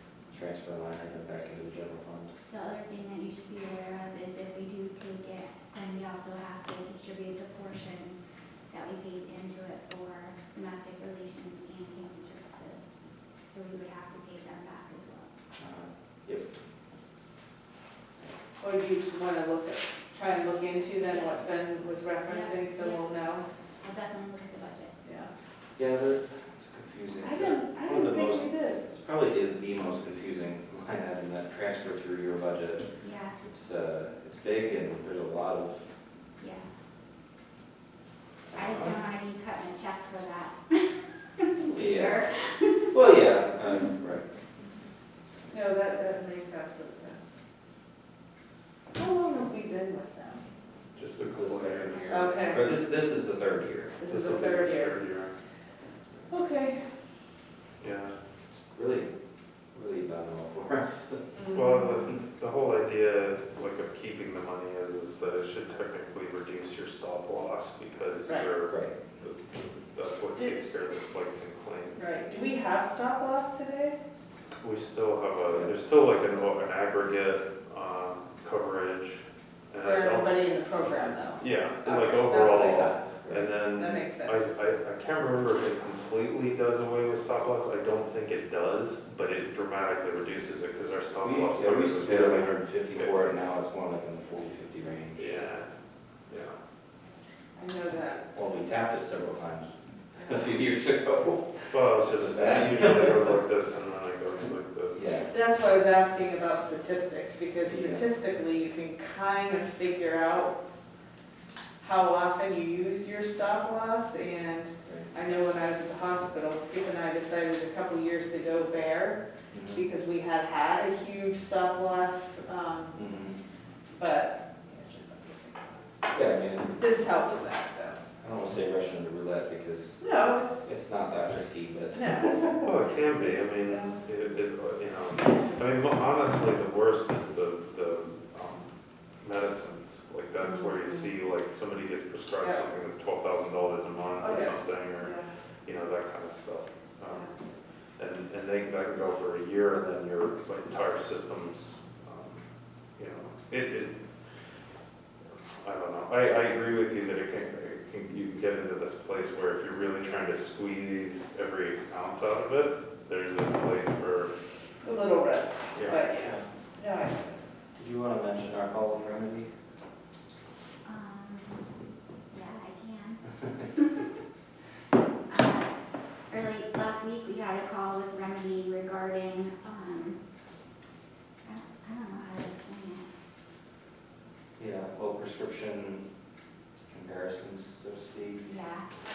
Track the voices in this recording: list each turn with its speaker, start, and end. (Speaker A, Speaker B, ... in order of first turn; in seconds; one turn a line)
Speaker A: 0.3-2.3
Speaker B: 2.5-8.2
Speaker B: 8.7-15.3
Speaker A: 15.6-16.5
Speaker C: 18.6-23.5
Speaker B: 21.0-21.4
Speaker B: 22.3-25.0
Speaker C: 25.1-25.3
Speaker A: 25.8-35.8
Speaker C: 27.2-28.8
Speaker B: 33.0-33.4
Speaker B: 36.4-36.7
Speaker B: 38.5-43.0
Speaker A: 41.7-42.2
Speaker A: 42.9-44.2
Speaker C: 45.5-47.4
Speaker C: 49.0-50.5
Speaker D: 51.0-52.7
Speaker A: 51.1-54.0
Speaker C: 52.1-52.7
Speaker C: 54.0-55.0
Speaker D: 54.0-55.3
Speaker C: 56.3-56.8
Speaker D: 57.8-58.1
Speaker A: 58.5-59.1
Speaker A: 59.7-61.4
Speaker D: 61.5-72.1
Speaker A: 68.6-69.0
Speaker C: 72.0-74.0
Speaker D: 74.6-93.3
Speaker C: 79.8-83.0
Speaker C: 83.7-84.5
Speaker A: 91.2-95.3
Speaker D: 95.2-95.7
Speaker D: 96.3-96.6
Speaker C: 97.6-98.2
Speaker A: 98.3-103.4
Speaker D: 101.7-105.1
Speaker A: 104.9-105.3
Speaker C: 105.3-110.6
Speaker A: 107.7-108.1
Speaker C: 111.8-119.2
Speaker A: 114.8-115.1
Speaker A: 119.5-119.9
Speaker C: 119.7-123.0
Speaker A: 123.0-123.4
Speaker C: 123.9-125.7
Speaker A: 126.1-126.9
Speaker C: 126.8-128.0
Speaker A: 128.2-130.0
Speaker C: 130.0-130.7
Speaker A: 130.6-132.7
Speaker C: 131.9-132.3
Speaker D: 132.6-138.7
Speaker C: 133.7-134.0
Speaker D: 139.2-147.3
Speaker C: 144.2-145.3
Speaker D: 148.0-152.4
Speaker D: 153.0-154.0
Speaker D: 155.6-164.3
Speaker C: 164.8-167.4
Speaker D: 165.8-166.1
Speaker A: 166.1-166.4
Speaker A: 167.8-169.5
Speaker B: 170.8-171.8
Speaker B: 172.3-173.9
Speaker B: 175.3-180.2
Speaker B: 181.4-183.1
Speaker A: 184.6-186.1
Speaker A: 186.9-188.5
Speaker B: 188.4-188.9